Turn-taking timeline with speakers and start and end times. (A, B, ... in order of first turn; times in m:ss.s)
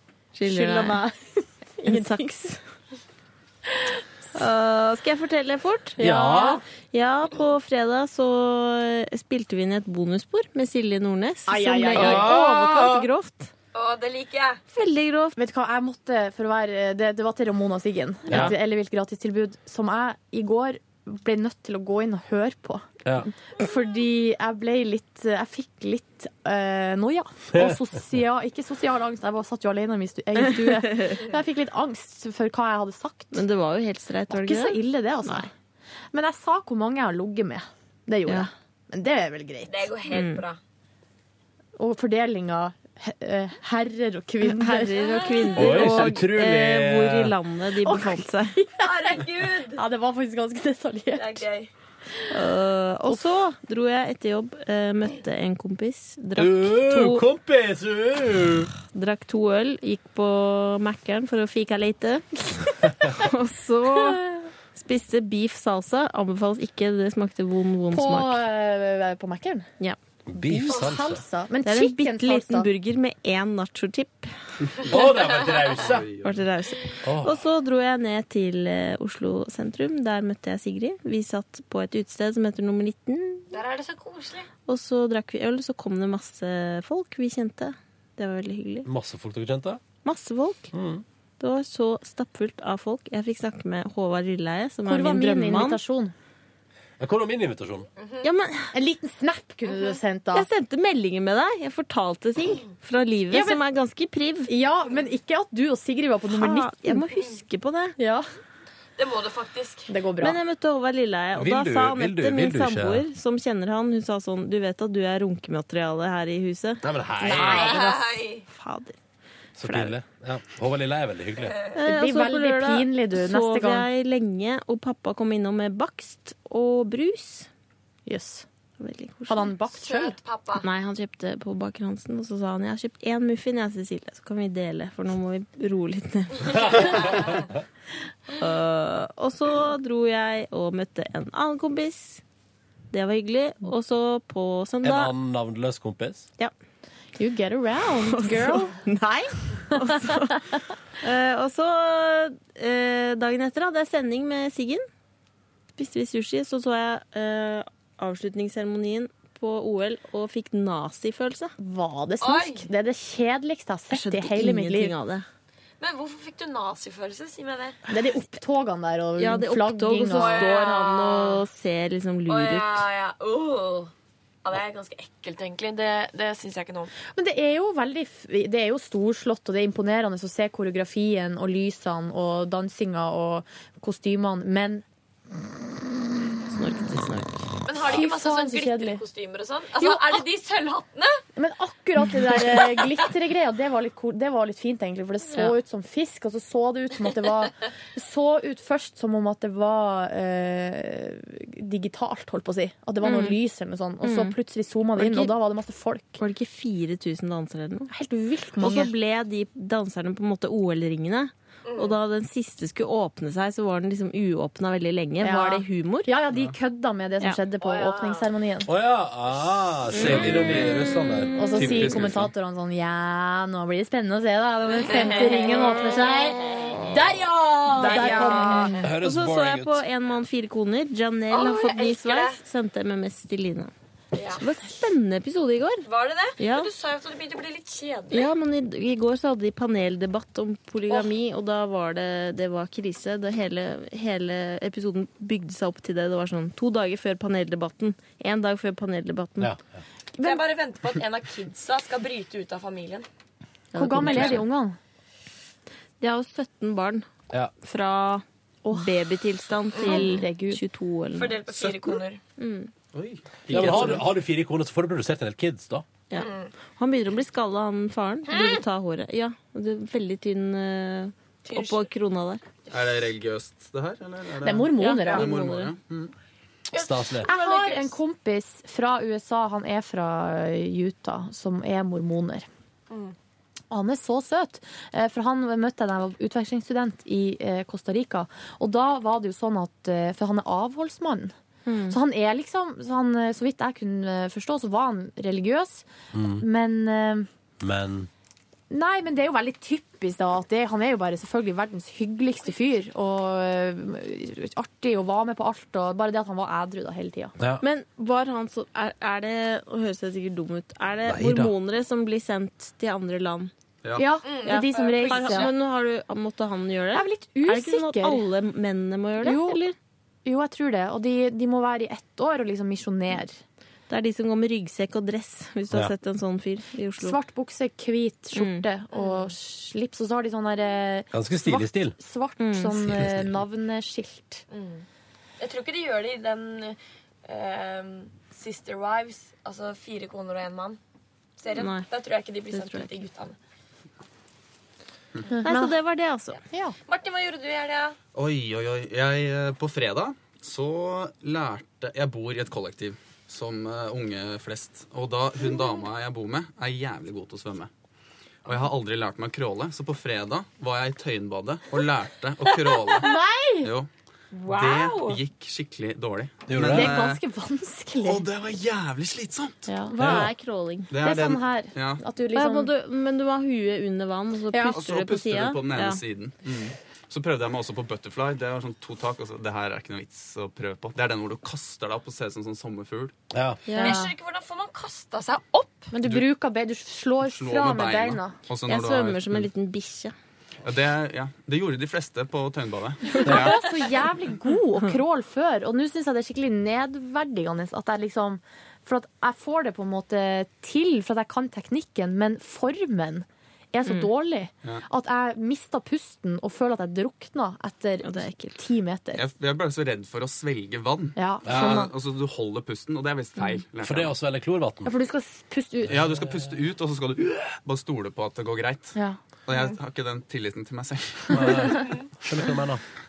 0:00.3-0:01.0 A
0:00.5-0:02.3 B
0:01.8-0:02.6 A
0:04.3-0:06.0 A
0:06.0-0:06.6 B
0:06.0-0:06.6 C
0:06.8-0:13.5 A
0:11.5-0:13.1 B
0:12.0-0:13.0 C
0:13.7-0:14.6 D
0:14.7-0:15.4 A
0:15.4-0:22.9 B
0:18.3-0:18.6 C
0:23.6-0:33.4 B
0:27.5-0:27.8 C
0:30.4-0:31.2 A
0:33.3-0:35.5 A
0:34.3-0:35.5 B
0:36.1-0:39.9 B
0:39.7-0:40.6 D
0:40.1-0:40.4 A
0:41.8-0:45.0 B
0:44.4-0:48.6 A
0:45.0-0:45.8 D
0:45.6-0:47.3 C
0:45.6-0:46.0 B
0:47.8-0:51.5 B
0:48.8-0:49.8 D
0:51.2-0:51.7 D
0:52.3-0:57.3 A
0:56.4-0:58.7 C
0:58.9-1:08.4 A
1:07.9-1:09.7 B
1:10.3-1:11.2 C
1:10.4-1:12.7 B
1:11.6-1:14.3 A
1:14.7-1:16.5 E
1:14.9-1:16.1 C
1:16.2-1:23.6 A
1:17.0-1:17.4 C
1:23.5-1:24.5 D
1:24.7-1:28.9 A
1:28.9-1:29.8 C
1:30.0-1:30.7 A
1:30.7-1:31.0 C
1:31.4-1:35.8 A
1:34.9-1:36.1 B
1:37.0-1:37.9 C
1:38.0-1:38.3 D
1:38.2-1:38.7 A
1:38.7-1:40.5 B
1:40.3-1:44.5 A
1:43.3-1:43.6 B
1:44.5-1:47.0 B
1:46.3-1:48.0 A
1:48.0-1:48.2 B
1:49.0-1:49.9 D
1:49.9-1:50.4 B
1:50.2-1:59.0 A
1:51.4-1:53.0 C
1:56.8-1:57.7 C
1:57.2-1:58.4 D
1:59.6-2:01.6 C
1:59.6-2:00.0 A
2:01.8-2:07.5 A
2:01.8-2:03.9 B
2:08.1-2:08.5 B
2:08.8-2:09.6 A
2:09.3-2:10.2 B
2:09.7-2:10.6 D
2:10.6-2:17.1 A
2:18.3-2:22.2 A
2:22.9-2:25.1 A
2:24.8-2:26.3 C
2:27.2-2:28.8 B
2:28.0-2:30.4 A
2:29.8-2:30.2 B
2:31.0-2:34.8 A
2:35.8-2:41.5 A
2:41.6-2:44.9 B
2:42.2-2:42.7 D
2:43.9-2:45.3 A
2:45.8-2:47.8 D
2:47.9-2:50.5 B
2:49.2-2:52.9 A
2:50.1-2:51.4 D
2:52.3-2:53.9 D
2:54.4-2:56.9 D
2:57.2-3:04.8 B
3:06.5-3:07.5 A
3:07.6-3:11.2 D
3:07.8-3:09.0 B
3:09.8-3:10.3 B
3:11.4-3:26.2 B
3:23.0-3:23.4 A
3:24.0-3:24.4 A
3:25.0-3:25.4 A
3:26.2-3:27.9 A
3:27.9-3:28.9 B
3:28.6-3:36.2 A
3:31.7-3:32.0 D
3:35.2-3:38.7 B
3:37.6-3:38.3 D
3:38.7-3:41.3 C
3:39.9-3:40.2 A
3:40.0-3:40.8 E
3:41.3-3:41.9 A
3:41.4-3:48.9 B
3:41.5-3:42.3 E
3:44.9-3:46.9 D
3:47.7-3:48.9 D
3:47.8-3:53.7 A
3:48.8-3:49.8 C
3:51.3-3:52.4 D
3:54.1-3:54.4 D
3:54.4-3:55.9 A
3:55.8-3:58.3 D
3:56.4-3:56.7 A
3:58.1-4:09.6 A
4:10.2-4:13.1 D
4:13.7-4:14.5 A
4:13.8-4:14.8 B
4:14.1-4:14.4 D
4:16.0-4:17.1 A
4:17.6-4:21.4 A
4:19.8-4:20.1 D
4:19.8-4:20.6 B
4:21.2-4:22.2 D
4:22.4-4:22.7 A
4:22.9-4:24.1 E
4:23.5-4:25.9 C
4:23.6-4:24.0 B
4:23.6-4:23.9 A
4:26.1-4:32.4 A
4:26.1-4:26.5 D
4:28.3-4:28.6 D
4:31.4-4:31.9 D
4:32.7-4:36.1 E
4:34.4-4:35.3 B
4:34.8-4:35.7 A
4:35.0-4:35.2 D
4:36.7-4:38.0 D
4:36.7-4:37.3 C
4:37.2-4:42.5 B
4:43.7-4:51.3 B
4:51.7-4:52.0 A
4:51.9-4:55.8 B
4:56.1-4:56.4 C
4:56.4-4:57.3 B
4:57.6-4:58.1 C
4:58.7-5:07.3 B
5:07.6-5:13.5 A
5:11.1-5:11.5 C
5:14.0-5:15.5 B
5:14.2-5:15.6 D
5:14.4-5:19.8 A
5:16.9-5:18.2 B
5:19.2-5:19.6 B
5:20.2-5:23.4 B
5:23.9-5:27.2 A
5:27.0-5:34.4 B
5:28.3-5:28.7 A
5:28.9-5:29.3 D
5:31.1-5:32.0 C
5:32.4-5:32.9 A
5:32.9-5:33.4 C
5:34.5-5:34.8 D
5:35.4-5:40.8 D
5:41.4-5:43.4 D
5:41.5-5:41.9 A
5:42.5-5:43.0 A
5:45.4-5:45.7 B
5:45.4-5:46.4 A
5:46.9-5:48.0 D
5:48.1-5:57.7 E
5:58.4-6:03.1 E
6:02.4-6:03.1 D
6:03.0-6:03.7 B
6:03.6-6:03.9 E
6:04.4-6:05.2 D
6:04.5-6:07.2 E
6:06.5-6:07.0 C
6:06.6-6:08.3 B
6:08.0-6:09.7 E
6:09.7-6:10.0 B
6:09.9-6:11.0 A
6:10.0-6:10.3 C
6:10.9-6:12.0 E
6:11.0-6:12.7 B
6:12.3-6:16.0 A
6:14.5-6:14.8 B
6:14.8-6:23.1 E
6:23.3-6:23.6 C
6:23.7-6:24.1 A
6:23.8-6:25.9 D
6:23.8-6:24.1 B
6:25.9-6:28.4 B
6:26.0-6:26.3 E
6:27.2-6:29.5 E
6:28.7-6:30.1 A
6:30.6-6:33.6 E
6:33.2-6:49.2 B
6:43.8-6:44.1 A
6:48.0-6:48.6 A
6:49.2-6:54.2 E
6:51.2-6:51.9 B
6:51.4-6:51.8 C
6:53.8-6:54.9 C
6:54.8-6:56.0 B
6:55.9-6:59.0 E
6:55.9-6:56.5 C
6:59.5-7:01.7 E
7:01.3-7:02.8 C